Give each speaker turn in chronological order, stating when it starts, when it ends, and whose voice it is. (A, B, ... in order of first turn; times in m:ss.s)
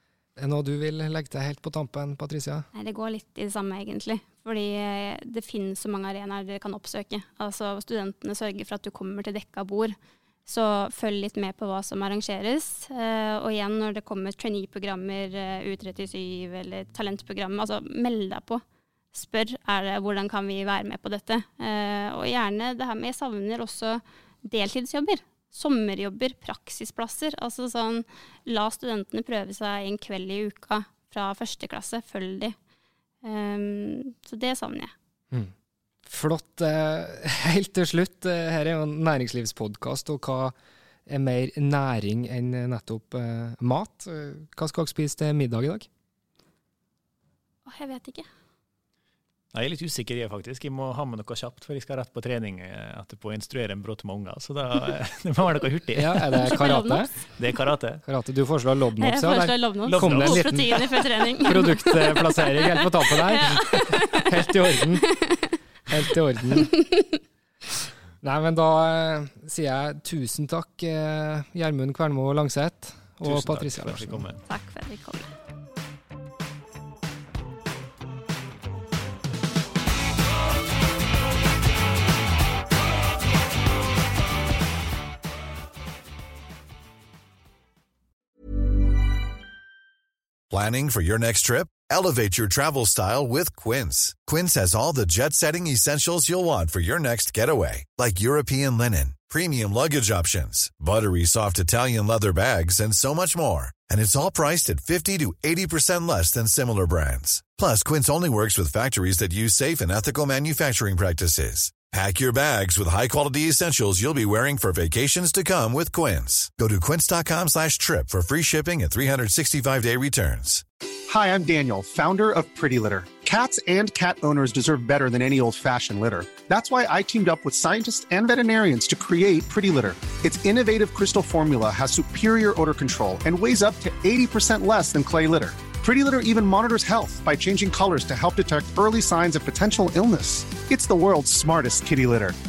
0:00.4-0:02.7 A
0:02.7-0:32.6 B
0:33.2-0:34.9 B
0:36.0-0:40.5 A
0:41.1-0:45.9 A
0:47.6-0:48.3 B
0:49.5-0:56.6 C
0:55.9-0:57.1 A
0:56.5-0:57.1 B
0:57.4-0:58.0 C
0:58.0-1:05.2 A
0:59.0-1:04.3 B
0:59.9-1:00.6 C
1:05.1-1:05.6 B
1:05.9-1:06.8 A
1:08.2-1:14.2 A
1:13.2-1:14.4 C
1:14.5-1:15.3 B
1:30.5-2:00.6 D
2:01.1-2:22.4 E